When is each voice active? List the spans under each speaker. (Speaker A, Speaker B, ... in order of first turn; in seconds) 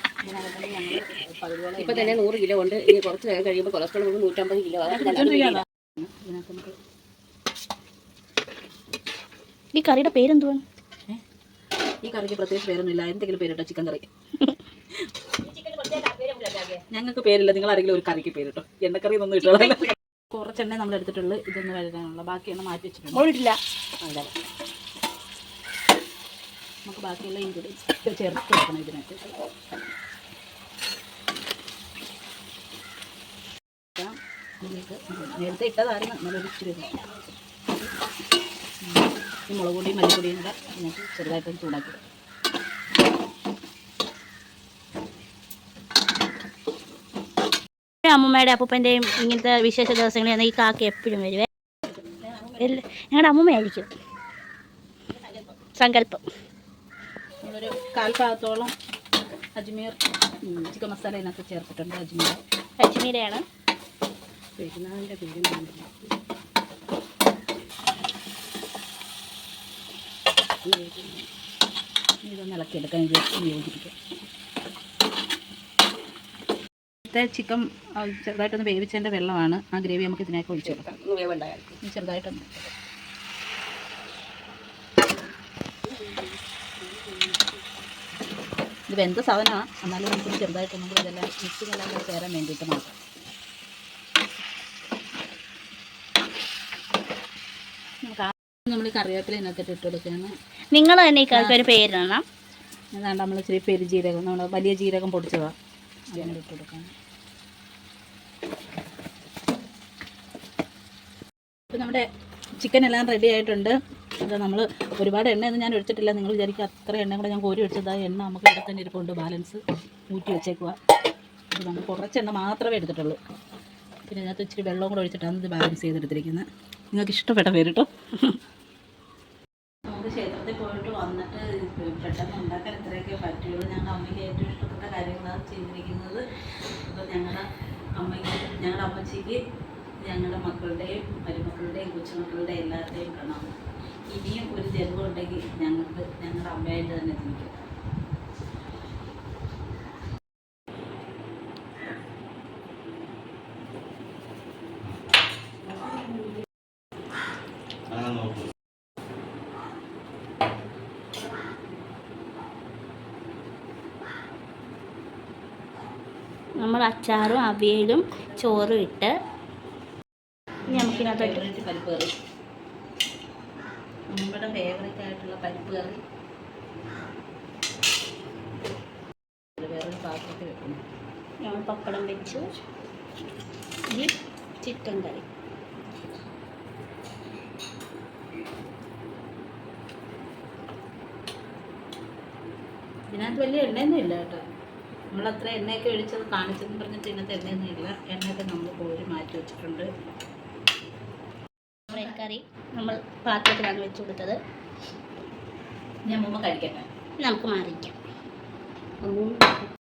Speaker A: 0.2-2.2, 4.8-6.8, 12.0-14.1, 16.9-23.2, 26.9-29.3, 34.0-36.9, 38.8-42.0, 57.4-58.7, 59.5-62.4, 72.2-73.9, 77.1-80.9, 81.8-82.7, 88.9-93.0, 98.0-100.3, 101.3-101.6, 102.9-105.5, 106.1-106.9, 111.7-112.0, 112.6-120.8, 121.5-123.2, 124.1-127.9, 129.9-139.4, 140.0-143.5, 144.1-147.7, 170.7-172.1, 174.1-176.0, 179.6-180.8, 193.1-194.4, 195.1-199.9, 206.1-206.9
Speaker B: 1.8-5.6, 15.4-16.8, 24.0-24.3, 52.0-52.6, 55.1-55.5, 64.6-66.1, 70.6-71.3, 80.6-81.8, 85.8-87.6, 209.0-209.7
Speaker C: 9.7-10.6, 23.1-23.6, 48.0-51.5, 52.6-53.9, 55.8-56.2, 62.8-63.4, 100.7-102.2, 166.6-169.1, 170.7-171.4, 181.4-182.5, 183.9-185.2, 201.9-204.4, 207.2-207.9